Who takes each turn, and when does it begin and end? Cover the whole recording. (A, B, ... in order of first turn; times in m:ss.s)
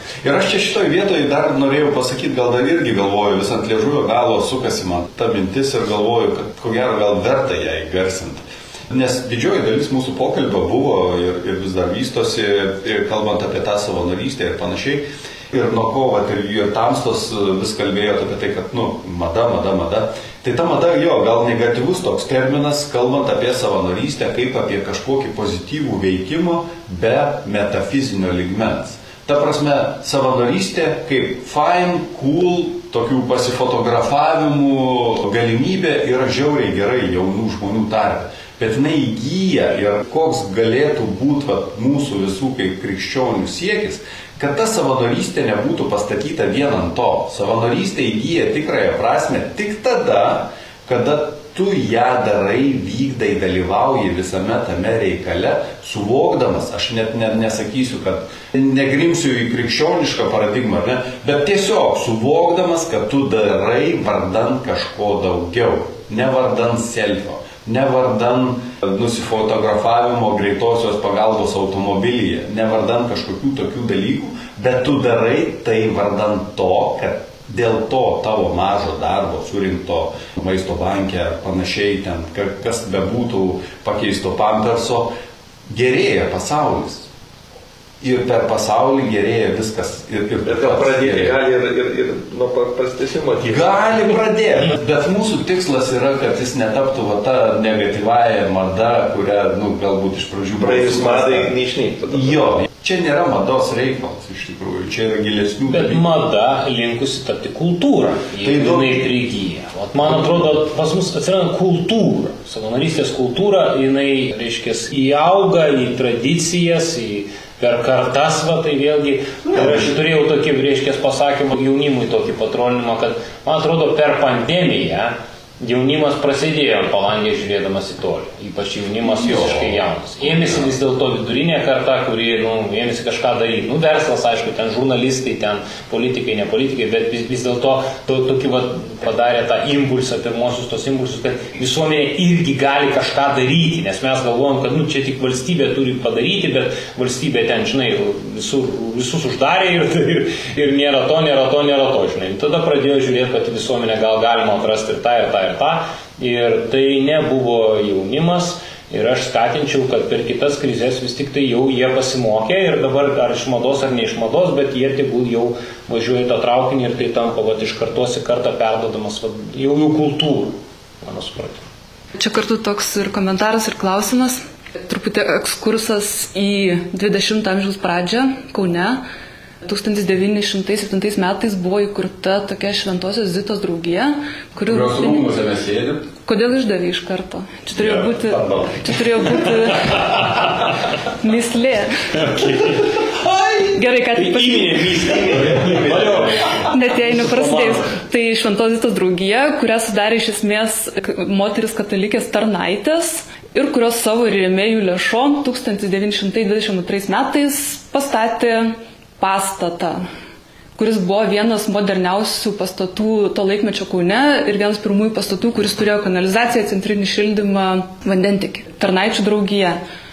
0:00.2-1:25.1 A
1:25.7-1:27.1 A
1:28.0-1:31.4 A
1:30.4-1:33.7 B
1:33.4-1:41.5 A
1:40.6-1:42.6 B
1:42.1-1:46.0 A
1:45.7-2:51.6 C
1:48.4-1:49.0 A
1:59.4-2:00.0 A
2:09.0-2:10.7 A
2:52.2-2:59.0 D
2:59.6-3:05.3 D
3:04.6-3:06.1 A
3:06.2-3:10.3 D
3:07.8-3:09.4 A
3:11.2-3:12.3 D
3:12.4-3:12.8 C
3:13.3-3:16.3 A
3:13.7-3:14.9 D
3:14.5-3:17.6 C
3:16.7-3:30.0 D
3:30.8-3:39.8 D